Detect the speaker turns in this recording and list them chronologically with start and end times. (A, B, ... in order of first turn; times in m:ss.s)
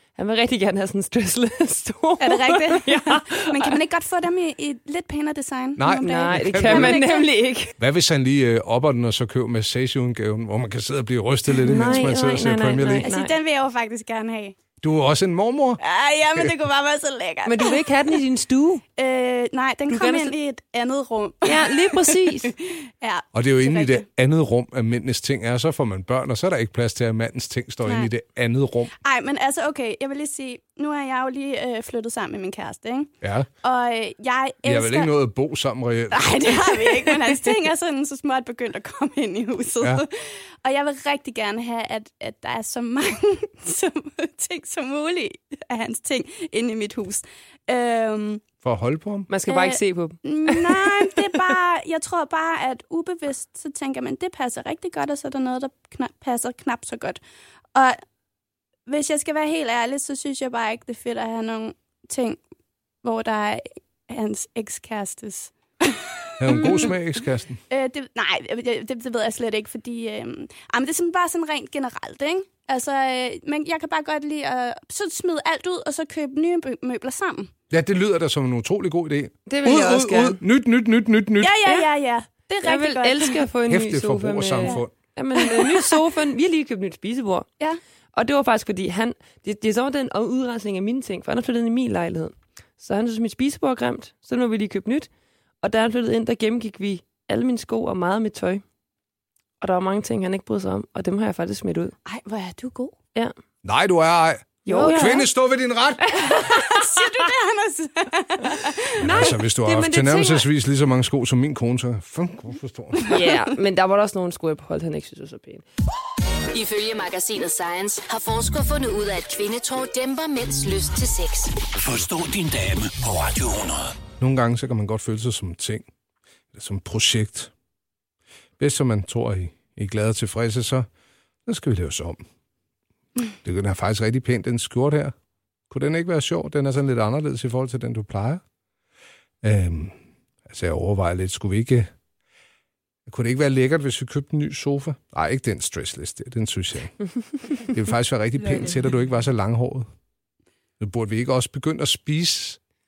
0:00.2-0:03.8 A
0:02.2-0:07.3 B
0:05.8-0:07.0 C
0:06.0-0:07.7 A
0:07.8-0:13.1 C
0:11.5-0:13.3 A
0:13.0-0:14.6 B
0:14.8-0:15.8 C
0:15.8-0:17.8 B
0:17.4-0:18.8 A
0:19.0-0:24.0 B
0:19.9-0:20.3 A
0:21.4-0:22.5 A
0:23.3-0:28.9 C
0:29.0-0:35.1 B
0:33.2-0:33.5 C
0:34.6-0:36.8 C
0:36.1-0:48.4 B
0:48.6-0:49.3 C
0:49.3-0:51.6 A
0:49.5-0:57.2 B
0:57.7-0:58.0 B
0:58.9-1:02.4 B
1:03.0-1:07.0 B
1:06.4-1:07.6 C
1:07.7-1:17.5 B
1:17.7-1:21.6 C
1:19.5-1:20.4 A
1:21.4-1:23.4 B
1:22.6-1:27.5 A
1:23.7-1:24.9 C
1:25.4-1:25.9 B
1:28.1-1:35.1 A
1:35.6-1:38.6 A
1:39.6-1:41.9 A
1:42.1-1:43.0 B
1:43.6-1:46.3 C
1:44.7-1:45.2 A
1:44.7-1:45.1 B
1:46.1-1:46.8 A
1:46.2-1:49.0 B
1:49.0-1:50.5 A
1:49.0-1:53.0 C
1:53.0-1:53.4 B
1:53.0-1:55.6 A
1:56.5-2:01.6 D
2:01.7-2:04.0 E
2:04.2-2:05.9 C
2:06.5-2:07.5 C
2:08.6-2:10.9 C
2:11.5-2:12.2 C
2:13.4-2:15.1 C
2:15.7-2:18.4 C
2:19.4-2:21.9 C
2:23.1-2:29.9 C
2:30.8-2:32.6 C